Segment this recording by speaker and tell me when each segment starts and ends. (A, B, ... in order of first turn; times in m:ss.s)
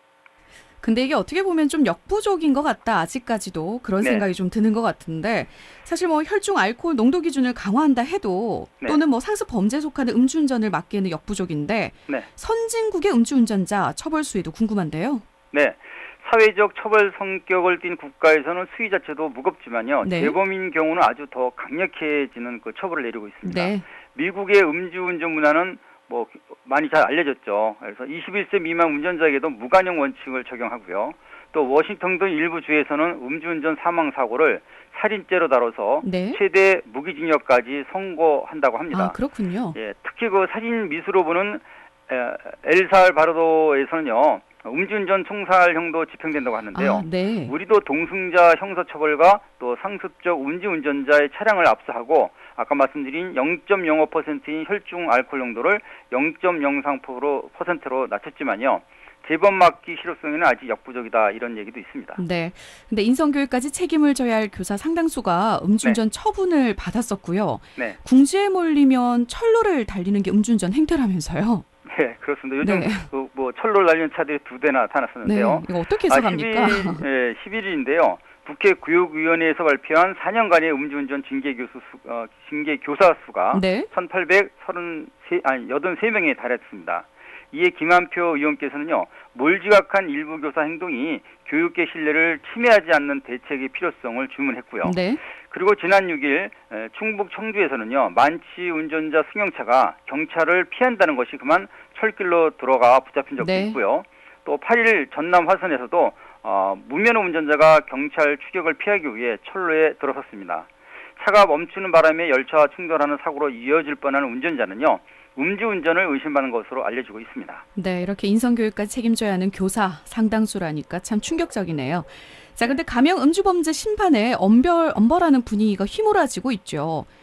0:00.8-0:15.2 A
0:04.0-0:04.3 B
0:15.5-0:39.2 B
0:20.0-0:20.4 A
0:23.4-0:23.8 A
0:36.0-0:36.4 A
0:38.9-0:39.8 A
0:39.8-1:02.2 B
0:46.7-0:47.5 A
1:02.2-1:11.6 A
1:11.9-1:35.0 B
1:12.6-1:13.1 A
1:15.2-1:17.0 A
1:23.5-1:23.9 A
1:34.8-1:35.2 A
1:35.5-1:57.6 B
1:43.4-1:43.8 A
1:57.8-2:07.1 A